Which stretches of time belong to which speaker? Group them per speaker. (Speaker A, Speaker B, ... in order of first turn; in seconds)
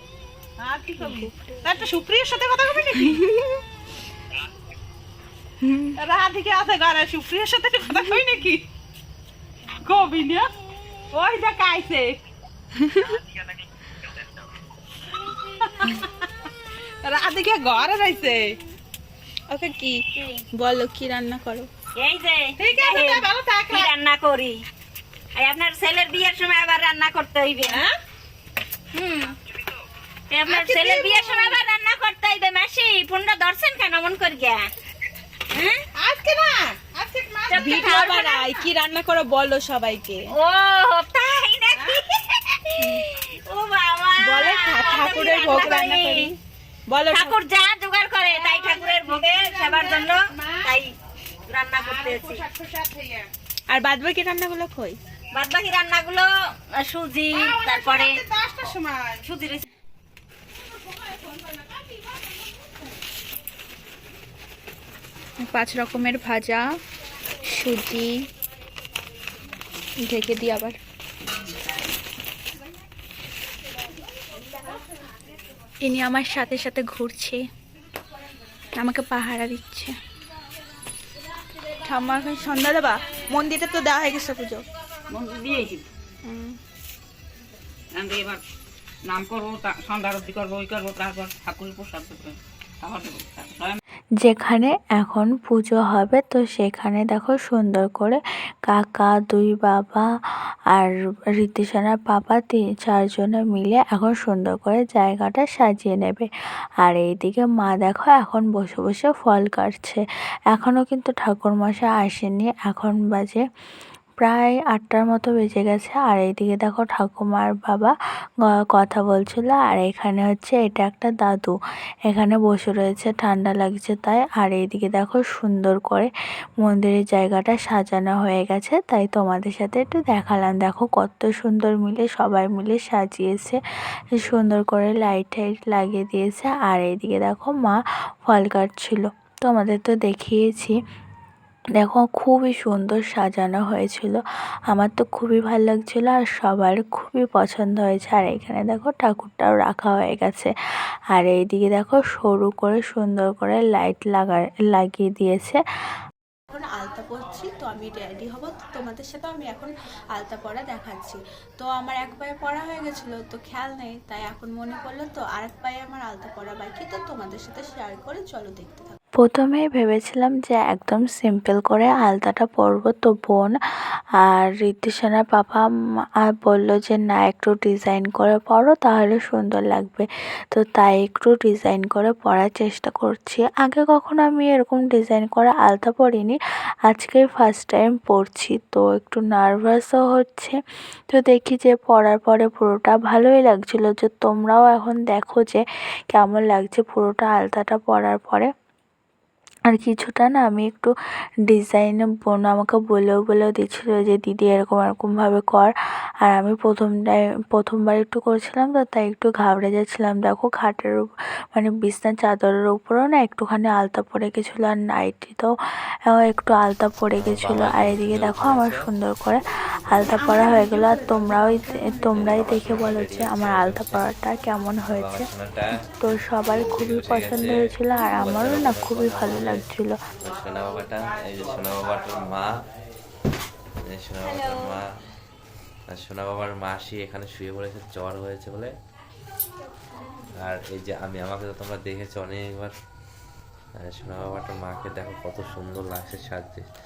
Speaker A: 0.7-3.1, 6.1-8.6, 9.9-10.5, 11.1-12.1, 17.0-18.5, 22.6-23.9, 30.5-31.5, 36.0-37.6, 48.2-50.6, 51.7-53.3, 57.3-59.2, 61.0-62.0
Speaker B: 1.0-1.8, 19.5-20.0, 20.5-21.7, 37.5-40.3, 44.2-46.4, 46.9-47.4, 53.7-55.0, 65.4-66.7, 67.5-68.2, 70.0-70.8, 75.8-77.4, 78.8-79.9, 81.9-84.6, 86.2-86.5, 156.5-169.0, 220.1-222.2
Speaker C: 21.9-24.6, 25.4-27.8, 28.9-29.3, 30.3-34.6, 35.5-35.8, 37.5-38.6, 40.3-42.0, 43.4-46.3, 47.0-50.9, 51.5-52.4, 55.3-56.3, 56.8-58.1, 59.2-59.6, 234.2-234.6
Speaker D: 85.1-85.8, 87.9-88.4, 89.0-93.8
Speaker E: 94.2-100.1, 100.7-106.3, 106.8-113.4, 114.2-121.5, 122.1-126.1, 126.6-133.6, 134.1-140.8, 141.8-150.5, 151.1-155.6, 169.2-173.6, 174.2-175.7, 176.2-190.6, 191.1-198.5, 199.7-200.9, 201.5-205.7, 206.2-215.5, 216.1-225.2, 226.0-230.0
Speaker F: 217.2-218.9, 222.1-224.1, 224.9-229.7, 230.2-232.5, 233.9-234.8, 235.9-238.7, 240.4-242.7, 243.8-246.7